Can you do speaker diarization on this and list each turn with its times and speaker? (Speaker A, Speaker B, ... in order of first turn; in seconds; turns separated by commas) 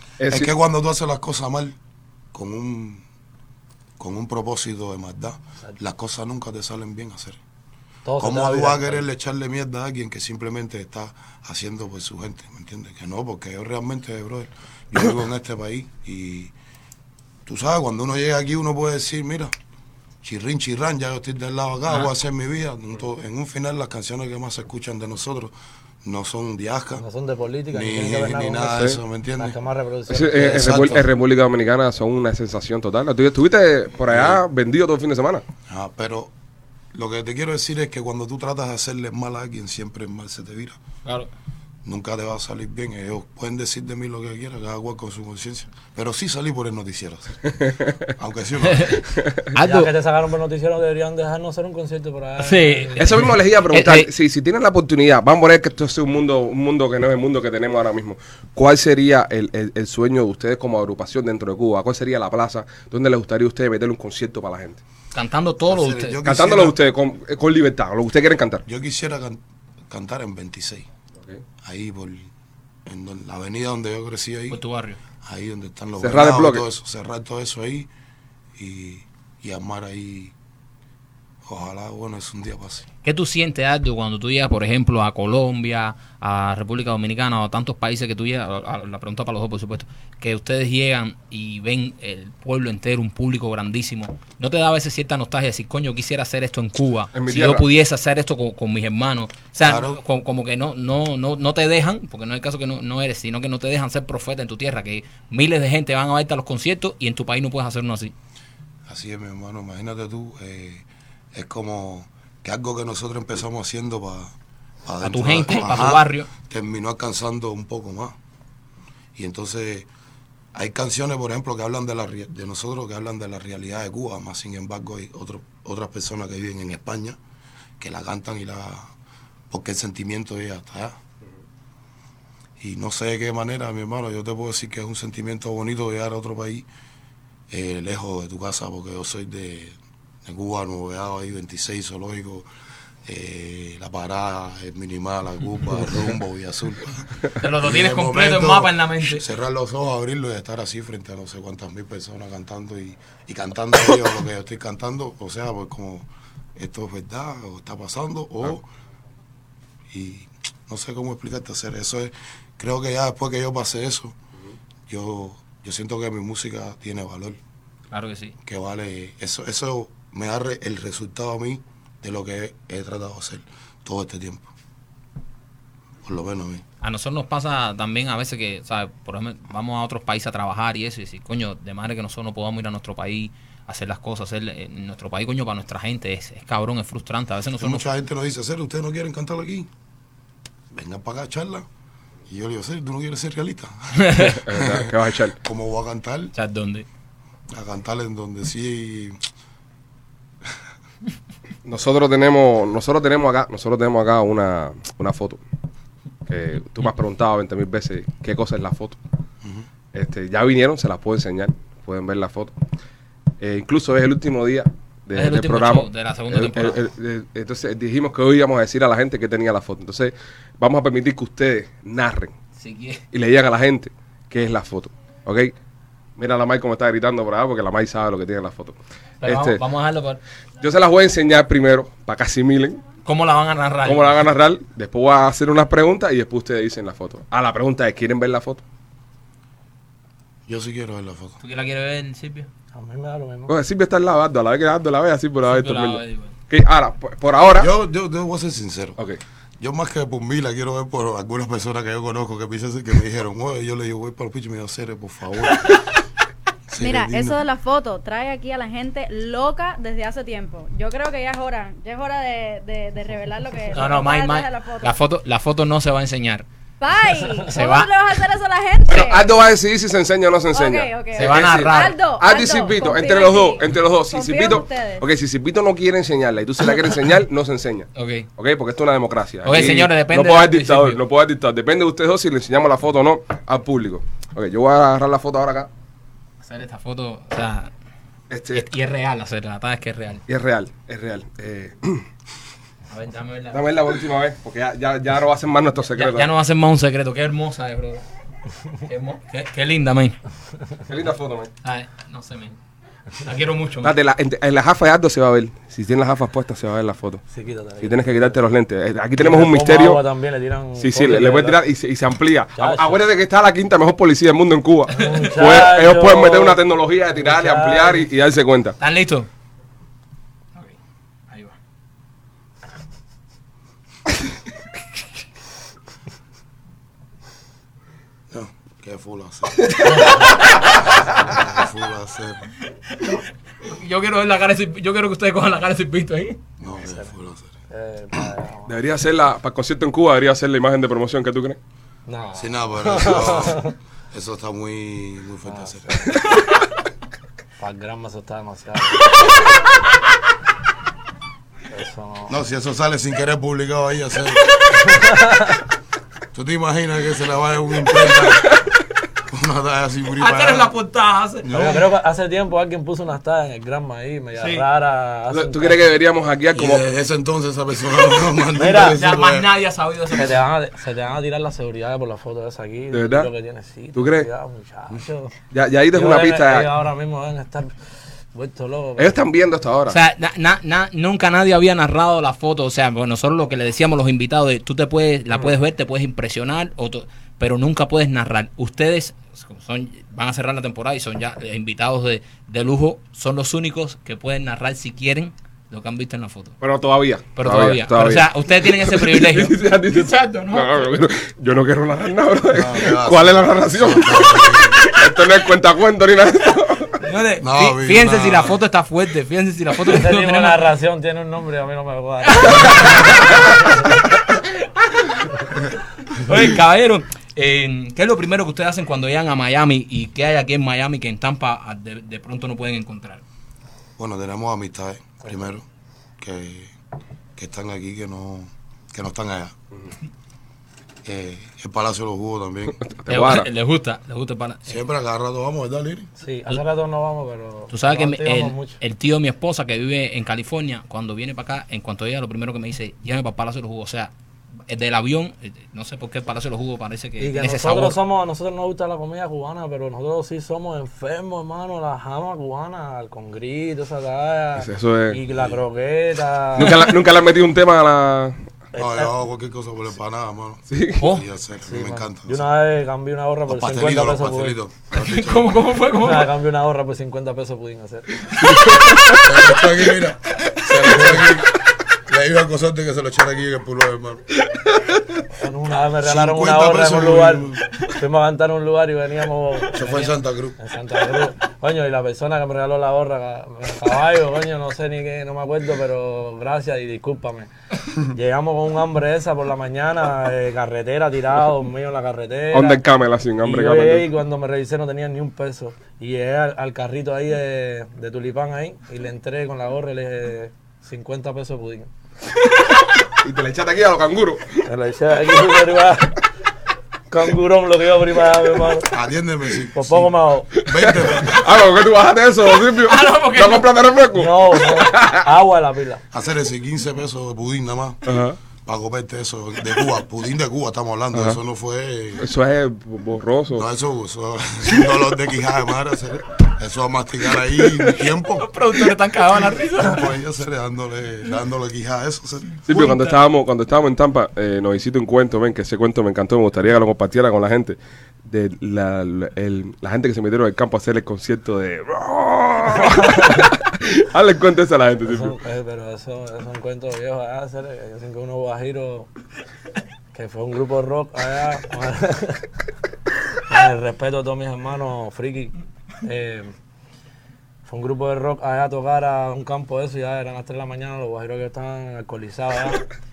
Speaker A: 0.2-0.5, Speaker B: 0.3-1.8, Speaker B: 2.3-3.0, Speaker B: 4.0-7.4, Speaker C: 8.1-9.0, Speaker B: 8.2-16.5, Speaker B: 17.4-19.5, Speaker B: 20.2-25.5, Speaker B: 26.0-27.0, Speaker C: 27.0-31.0, Speaker B: 27.7-29.6, Speaker A: 30.1-35.4, Speaker B: 30.3-31.1, Speaker B: 34.1-34.4, Speaker B: 35.7-36.3, Speaker B: 36.9-40.8, Speaker D: 41.0-41.3, Speaker B: 41.8-49.1, Speaker A: 47.6-48.0, Speaker D: 48.7-49.9, Speaker C: 49.6-53.1, Speaker D: 52.4-54.1, Speaker A: 53.0-64.8, Speaker D: 65.1-66.2, Speaker B: 65.7-66.8, Speaker A: 66.2-68.6, Speaker B: 68.7-70.9, Speaker B: 71.6-72.3, Speaker B: 72.8-74.6, Speaker D: 74.5-75.0, Speaker B: 75.2-77.9, Speaker A: 76.0-76.6, Speaker B: 78.5-80.3, Speaker B: 81.4-82.9, Speaker D: 83.0-108.1, Speaker A: 97.1-97.7, Speaker B: 99.6-100.0, Speaker B: 108.9-114.3, Speaker B: 114.8-118.2, Speaker D: 115.0-116.3, Speaker B: 119.2-119.9, Speaker B: 120.5-127.2, Speaker B: 127.8-128.9, Speaker B: 129.5-131.0, Speaker B: 132.6-136.7, Speaker B: 137.5-142.4, Speaker B: 143.0-158.6, Speaker D: 147.4-149.2, Speaker B: 159.9-164.2, Speaker B: 164.9-167.4, Speaker D: 167.9-168.3, Speaker B: 168.4-174.5, Speaker B: 176.0-176.6, Speaker D: 176.8-187.9, Speaker B: 187.6-189.7, Speaker B: 190.7-191.7, Speaker B: 192.3-196.3, Speaker D: 194.0-194.4, Speaker A: 194.2-195.4, Speaker D: 196.3-196.8, Speaker B: 197.5-199.2, Speaker A: 201.7-205.4, Speaker A: 206.3-209.0, Speaker B: 209.4-209.7, Speaker A: 209.9-212.5, Speaker A: 213.4-222.3, Speaker D: 215.1-216.8, Speaker D: 222.6-223.0, Speaker A: 223.1-225.5, Speaker A: 226.2-229.6, Speaker D: 229.2-230.2, Speaker A: 230.6-232.8, Speaker D: 233.0-234.2, Speaker A: 233.8-238.6, Speaker B: 240.5-241.4, Speaker D: 241.4-242.5, Speaker C: 242.7-243.5, Speaker A: 243.5-247.7, Speaker D: 245.5-246.3, Speaker B: 247.4-249.0, Speaker B: 249.6-255.8, Speaker B: 256.7-257.4, Speaker E: 256.7-265.0, Speaker D: 263.7-266.4, Speaker E: 266.8-269.4, Speaker D: 267.4-267.9, Speaker A: 268.9-285.7, Speaker E: 270.5-275.1, Speaker D: 271.1-271.9, Speaker D: 277.9-278.3, Speaker D: 279.4-281.0, Speaker D: 286.4-287.7, Speaker A: 288.3-288.7, Speaker D: 288.5-290.2, Speaker A: 290.3-292.0, Speaker D: 292.9-293.6, Speaker A: 293.5-296.3, Speaker D: 295.9-298.0, Speaker D: 298.8-300.2, Speaker A: 300.9-301.5, Speaker D: 301.6-302.6, Speaker D: 303.2-303.9, Speaker A: 303.8-307.2, Speaker C: 307.3-308.4, Speaker A: 307.8-310.0, Speaker C: 309.2-311.6, Speaker A: 310.8-318.8, Speaker C: 312.6-313.0, Speaker C: 314.9-316.6, Speaker D: 315.0-315.5, Speaker C: 317.1-318.1, Speaker D: 318.8-319.3, Speaker D: 321.3-321.5, Speaker B: 328.3-332.5, Speaker C: 329.9-330.2, Speaker D: 332.9-336.4, Speaker B: 336.6-337.5, Speaker C: 336.6-337.1, Speaker C: 337.7-338.8, Speaker A: 338.7-341.6, Speaker C: 342.1-343.7, Speaker B: 342.3-346.1, Speaker C: 345.4-346.2, Speaker C: 347.6-349.3, Speaker C: 351.7-352.3, Speaker B: 352.3-354.8, Speaker C: 354.7-355.6, Speaker B: 356.3-358.6, Speaker B: 359.3-360.7, Speaker D: 360.2-361.5, Speaker B: 361.4-361.8, Speaker C: 361.5-365.9, Speaker D: 364.4-364.6, Speaker A: 365.3-366.9, Speaker B: 366.5-369.5, Speaker C: 368.5-369.0, Speaker D: 368.7-370.4, Speaker C: 370.1-375.3, Speaker A: 372.9-373.3, Speaker A: 373.9-374.3, Speaker A: 375.5-376.7, Speaker C: 375.9-377.7, Speaker C: 378.3-379.2, Speaker A: 379.0-380.0, Speaker D: 379.9-396.6, Speaker A: 396.6-406.9, Speaker D: 397.4-400.9, Speaker B: 402.5-404.8, Speaker D: 407.0-410.7, Speaker B: 407.4-408.6, Speaker C: 409.9-414.0, Speaker D: 412.2-413.2, Speaker A: 412.8-413.1, Speaker D: 414.9-415.2, Speaker D: 416.1-423.2, Speaker B: 424.0-425.6, Speaker B: 426.2-426.7, Speaker B: 427.4-429.5, Speaker B: 431.0-432.8, Speaker A: 432.8-433.5, Speaker D: 433.1-434.8, Speaker B: 434.7-436.1, Speaker C: 436.2-438.8, Speaker D: 437.7-444.1, Speaker D: 444.7-448.0, Speaker C: 447.2-456.9, Speaker A: 454.6-455.2, Speaker B: 455.3-455.6, Speaker A: 456.6-458.5, Speaker C: 458.7-459.1, Speaker B: 458.7-462.5, Speaker A: 460.7-461.0, Speaker D: 461.0-461.2, Speaker C: 461.6-464.6, Speaker B: 463.4-465.7, Speaker D: 464.9-466.3, Speaker C: 466.0-468.3, Speaker A: 468.4-469.1, Speaker B: 469.1-474.2, Speaker C: 470.8-471.3, Speaker C: 475.3-479.8, Speaker B: 476.0-477.7, Speaker B: 479.7-480.6, Speaker D: 479.8-480.1, Speaker C: 480.6-492.8, Speaker A: 492.5-494.1, Speaker C: 493.4-501.9, Speaker A: 503.1-504.7, Speaker C: 504.6-506.2, Speaker C: 507.1-508.9, Speaker B: 508.8-511.4, Speaker C: 509.7-510.5, Speaker A: 510.7-515.2, Speaker D: 512.8-513.7, Speaker C: 514.1-516.0, Speaker B: 516.1-518.0, Speaker A: 518.0-518.4, Speaker B: 518.6-522.3, Speaker A: 522.2-523.7, Speaker B: 523.5-528.5, Speaker D: 527.8-530.1, Speaker B: 529.6-532.5, Speaker A: 532.7-545.4, Speaker D: 532.7-533.1, Speaker C: 542.8-543.5, Speaker C: 545.0-549.1, Speaker C: 550.1-552.5, Speaker C: 553.4-556.5, Speaker C: 557.6-562.8